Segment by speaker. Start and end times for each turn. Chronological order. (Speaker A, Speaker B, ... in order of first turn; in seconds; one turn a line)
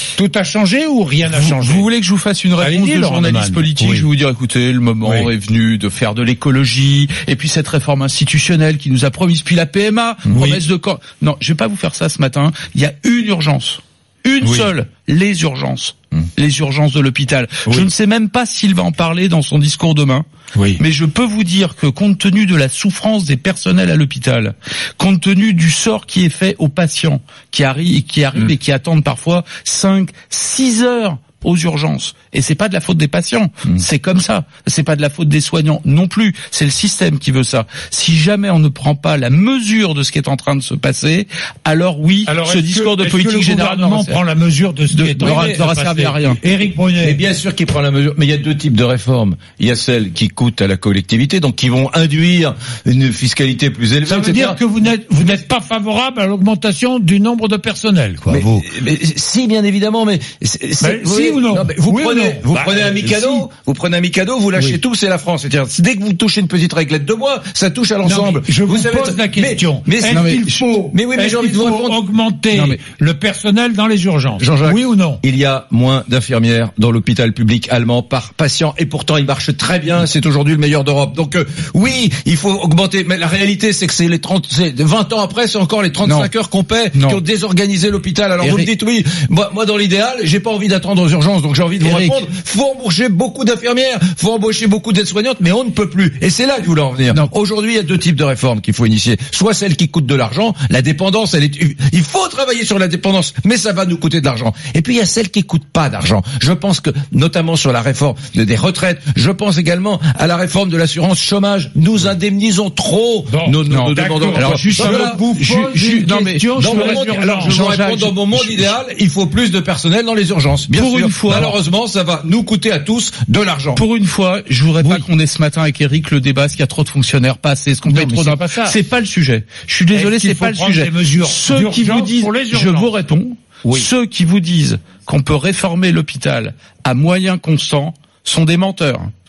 Speaker A: 0.1-1.9
Speaker B: 1.2-20.2
Speaker A: 2.6-4.1
Speaker A: 5.0-5.3
Speaker C: 10.3-10.6
Speaker A: 14.4-14.7
Speaker A: 20.6-20.8
Speaker B: 20.8-44.2
Speaker A: 42.2-47.2
Speaker B: 44.9-46.4
Speaker C: 45.2-45.6
Speaker C: 47.0-54.6
Speaker A: 54.0-58.7
Speaker C: 58.3-72.0
Speaker A: 60.8-63.5
Speaker A: 68.0-75.2
Speaker B: 70.1-70.4
Speaker B: 72.5-72.8
Speaker C: 74.4-115.2
Speaker B: 86.0-86.3
Speaker B: 86.9-87.2
Speaker B: 88.4-88.7
Speaker B: 91.8-92.2
Speaker A: 113.3-117.6
Speaker B: 113.7-118.7
Speaker C: 116.6-123.8
Speaker B: 120.7-121.5
Speaker B: 123.7-139.1
Speaker A: 127.8-128.8
Speaker A: 129.9-132.9
Speaker A: 133.6-133.9